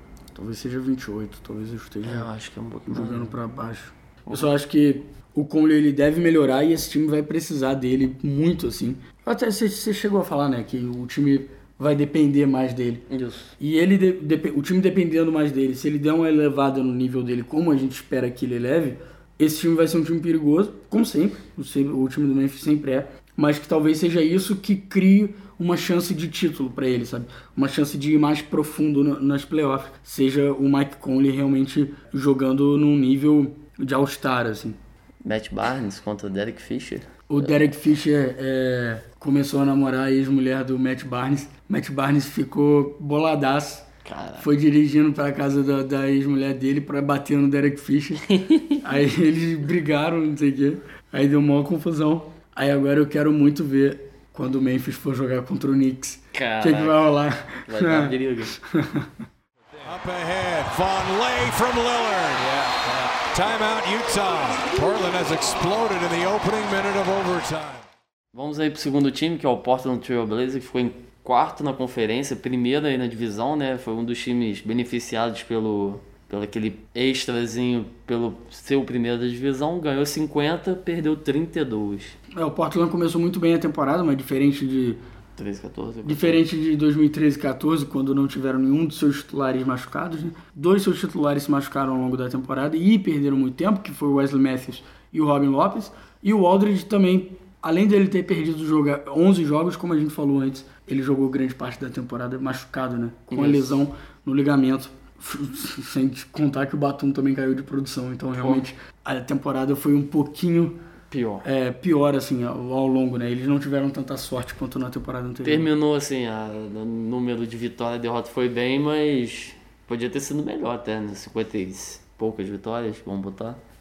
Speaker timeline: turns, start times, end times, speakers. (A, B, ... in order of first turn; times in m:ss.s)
0:00.4-0:02.3 A
0:02.0-0:03.3 B
0:02.9-0:13.0 A
0:13.1-0:13.5 B
0:13.6-0:34.8 A
0:35.2-0:37.5 B
0:37.3-0:43.8 A
0:44.0-0:44.5 B
0:44.4-0:48.2 A
0:48.2-0:48.8 B
0:48.8-0:59.1 A
0:56.3-0:57.0 B
0:57.6-0:58.6 B
0:59.8-1:07.8 C
1:08.3-1:22.2 B
1:22.3-1:25.0 A
1:25.4-1:26.4 B
1:26.0-1:50.8 A
1:43.3-1:43.8 B
1:48.4-1:48.6 B
1:51.1-1:51.4 B
1:51.4-1:55.7 A
1:55.4-2:03.6 B